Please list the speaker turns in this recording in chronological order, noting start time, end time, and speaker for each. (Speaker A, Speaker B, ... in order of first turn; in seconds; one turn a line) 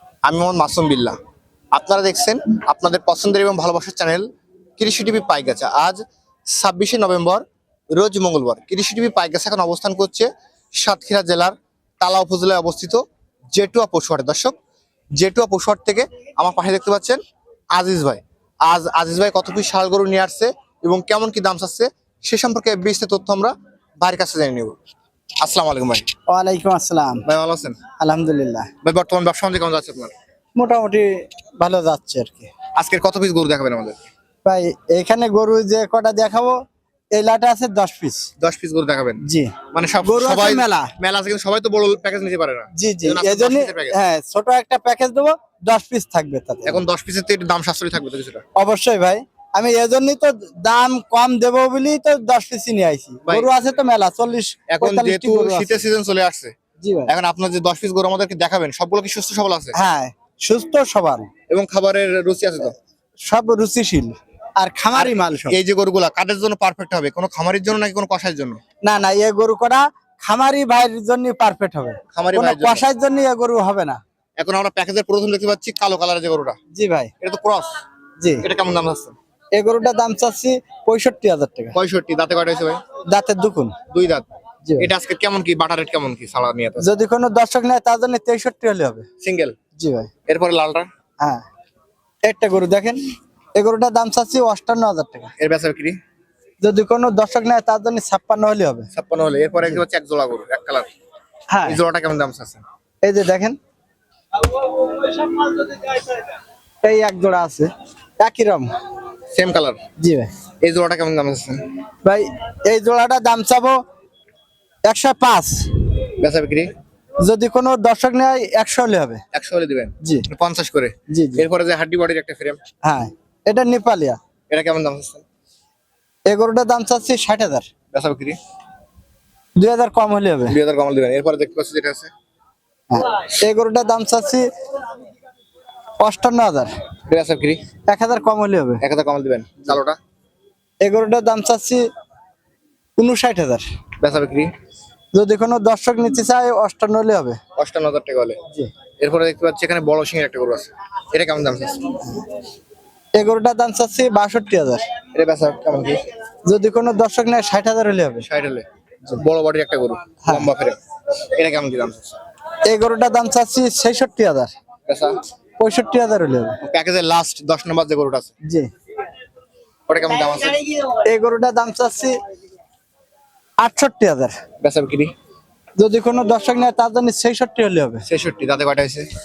Speaker A: 0.3-1.2
Speaker A: 1.7-6.0
Speaker A: 6.5-13.0
Speaker A: 13.5-14.6
Speaker A: 15.2-17.2
Speaker A: 17.8-24.8
Speaker A: 25.4-26.1
Speaker B: 26.3-27.2
Speaker A: 27.3-27.8
Speaker B: 28.0-28.7
Speaker A: 28.8-30.1
Speaker B: 30.6-32.5
Speaker A: 32.8-34.0
Speaker B: 34.5-36.6
Speaker B: 37.1-38.3
Speaker A: 38.4-44.0
Speaker B: 39.2-40.9
Speaker B: 42.8-46.8
Speaker A: 46.7-48.4
Speaker B: 48.6-55.8
Speaker A: 54.7-56.5
Speaker B: 56.8-57.1
Speaker A: 57.1-59.8
Speaker B: 59.7-61.3
Speaker A: 61.5-62.8
Speaker B: 63.3-65.5
Speaker A: 64.9-68.6
Speaker B: 68.8-74.0
Speaker A: 72.1-72.9
Speaker A: 74.4-76.6
Speaker B: 76.7-77.1
Speaker A: 77.2-77.7
Speaker B: 78.2-78.5
Speaker A: 78.4-79.2
Speaker B: 79.5-81.8
Speaker A: 81.8-82.8
Speaker B: 83.1-83.8
Speaker A: 83.9-84.3
Speaker B: 84.7-84.9
Speaker A: 84.8-86.9
Speaker B: 86.8-89.1
Speaker A: 89.2-89.6
Speaker B: 89.8-90.1
Speaker A: 90.3-90.9
Speaker B: 92.3-93.0
Speaker B: 93.6-95.3
Speaker A: 95.4-96.0
Speaker B: 96.6-98.9
Speaker A: 98.9-100.9
Speaker B: 101.5-101.8
Speaker A: 101.7-102.6
Speaker B: 103.0-103.6
Speaker B: 104.5-106.2
Speaker B: 106.8-108.7
Speaker A: 109.3-109.8
Speaker B: 110.0-110.3
Speaker A: 110.6-111.6
Speaker B: 112.0-113.8
Speaker B: 114.9-115.7
Speaker A: 116.2-116.7
Speaker B: 117.2-119.2
Speaker A: 119.3-122.6
Speaker B: 121.1-121.5
Speaker B: 122.8-124.2
Speaker A: 124.5-125.2
Speaker B: 126.3-127.7
Speaker A: 127.9-128.4
Speaker B: 129.6-130.6
Speaker A: 130.5-132.1
Speaker B: 132.9-134.5
Speaker B: 136.0-136.7
Speaker A: 137.1-137.6
Speaker B: 137.9-138.8
Speaker A: 138.8-140.0
Speaker B: 140.8-141.8
Speaker B: 143.0-143.7
Speaker A: 144.0-144.5
Speaker B: 145.1-147.4
Speaker A: 147.6-148.4
Speaker A: 149.0-152.0
Speaker B: 153.1-154.8
Speaker A: 155.1-156.0
Speaker B: 156.5-158.3
Speaker A: 158.2-160.8
Speaker B: 160.2-160.5
Speaker A: 161.3-162.2
Speaker B: 162.7-164.5
Speaker A: 164.9-165.2
Speaker B: 165.6-166.6
Speaker A: 166.6-168.3
Speaker A: 169.9-170.6
Speaker B: 170.9-172.2
Speaker B: 173.6-174.3
Speaker A: 174.6-175.1
Speaker B: 175.8-178.0
Speaker A: 178.1-179.1